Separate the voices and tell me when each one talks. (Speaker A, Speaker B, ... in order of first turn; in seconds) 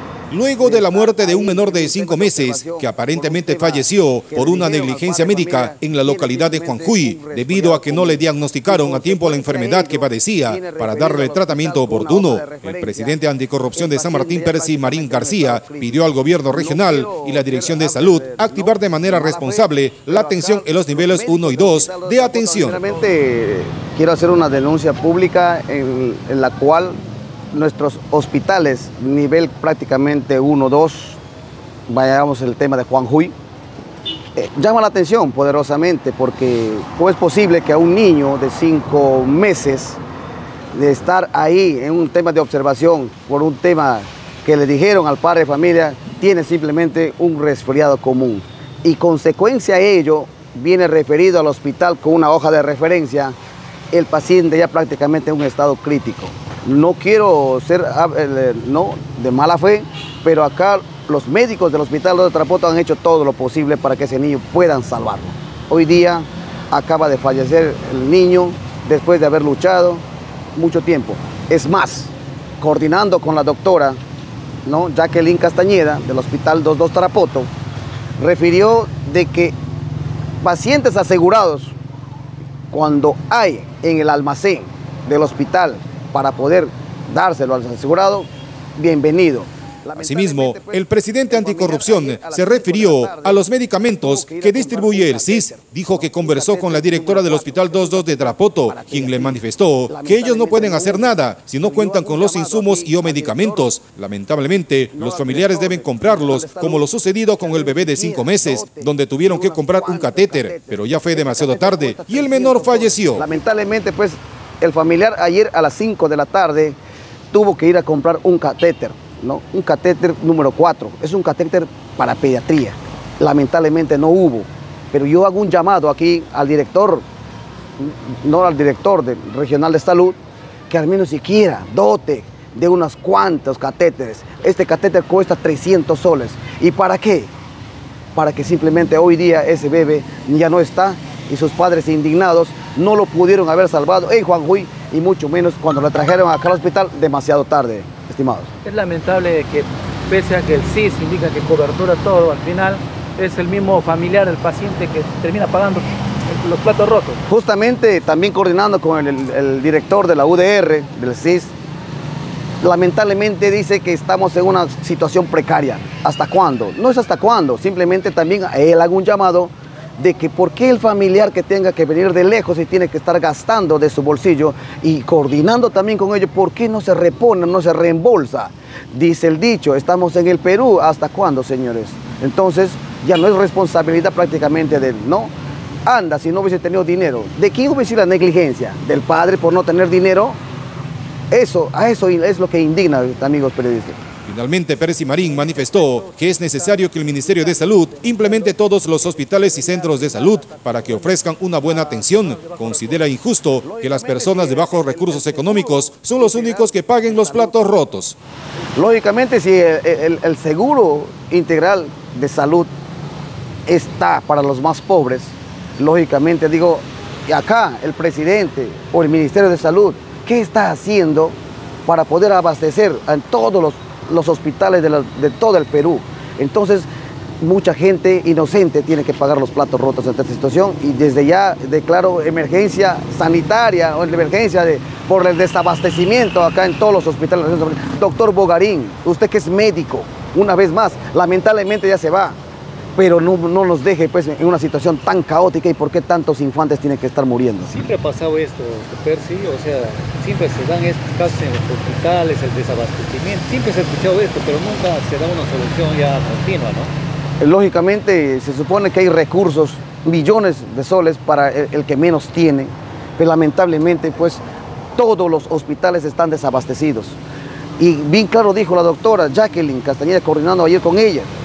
Speaker A: 0.3-22.9, 90.0-113.2, 194.2-208.2
Speaker B: 0.6-13.2, 13.7-27.0, 27.5-31.2, 31.9-33.3, 34.4-40.0, 40.7-53.4, 53.9-70.0, 70.5-74.0, 74.6-77.5, 78.2-79.5, 80.4-81.8, 82.7-103.7, 104.9-116.8, 117.3-127.0, 127.8-130.2, 130.7-137.3, 138.1-148.5, 157.3-161.5, 162.6-185.3, 185.8-190.4, 191.3-194.0, 203.5-207.8, 208.8-212.7, 213.7-226.9, 227.4-242.4, 242.9-247.7, 257.4-264.4, 264.9-267.2, 267.8-271.3
Speaker C: 148.7-157.2, 195.2-202.8, 247.7-256.9